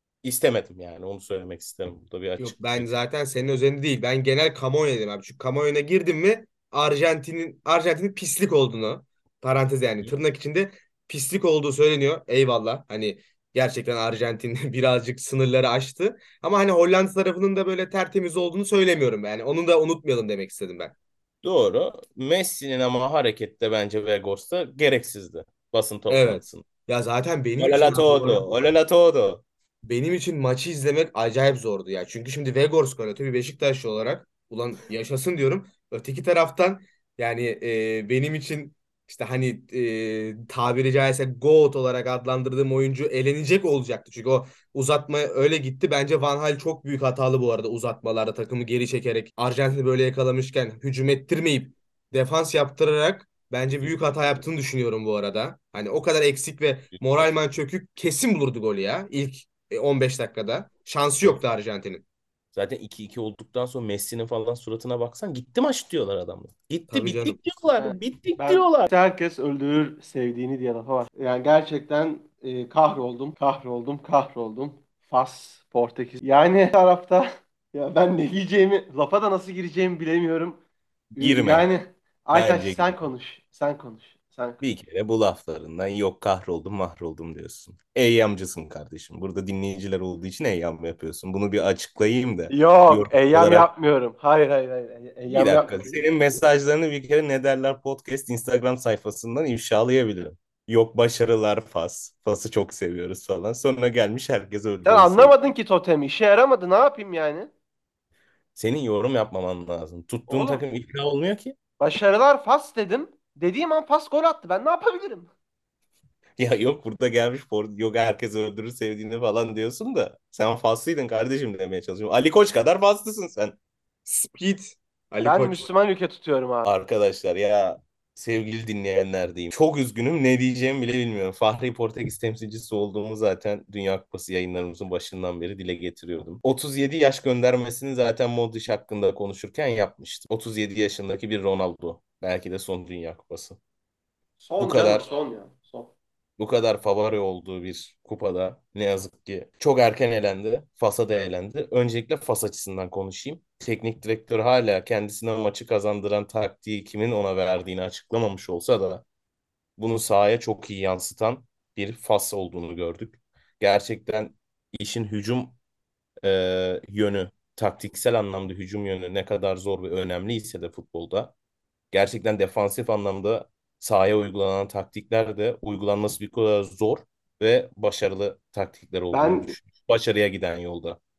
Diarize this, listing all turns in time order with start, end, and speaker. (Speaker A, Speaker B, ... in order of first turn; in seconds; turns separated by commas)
Speaker A: 0.2-2.9, Speaker B: 2.4-20.9, Speaker A: 21.4-26.6, Speaker B: 26.1-28.5, Speaker A: 27.6-29.4, Speaker B: 29.8-62.0, Speaker A: 53.8-54.4, Speaker A: 56.9-57.3, Speaker A: 62.5-68.9, Speaker B: 66.9-67.4, Speaker C: 67.8-80.6, Speaker C: 81.2-84.6, Speaker A: 81.2-81.7, Speaker A: 82.3-83.0, Speaker A: 84.6-93.7, Speaker C: 92.5-96.0, Speaker A: 95.3-105.3, Speaker C: 104.9-107.5, Speaker A: 108.5-111.5, Speaker C: 110.3-110.6, Speaker C: 111.8-115.3, Speaker A: 116.4-123.5, Speaker B: 124.0-125.7, Speaker C: 125.2-126.7, Speaker A: 126.7-143.6, Speaker C: 144.4-145.9, Speaker A: 144.6-145.1, Speaker A: 146.4-159.0, Speaker A: 159.8-165.6, Speaker A: 166.2-171.3, Speaker A: 171.9-181.0, Speaker C: 179.1-179.5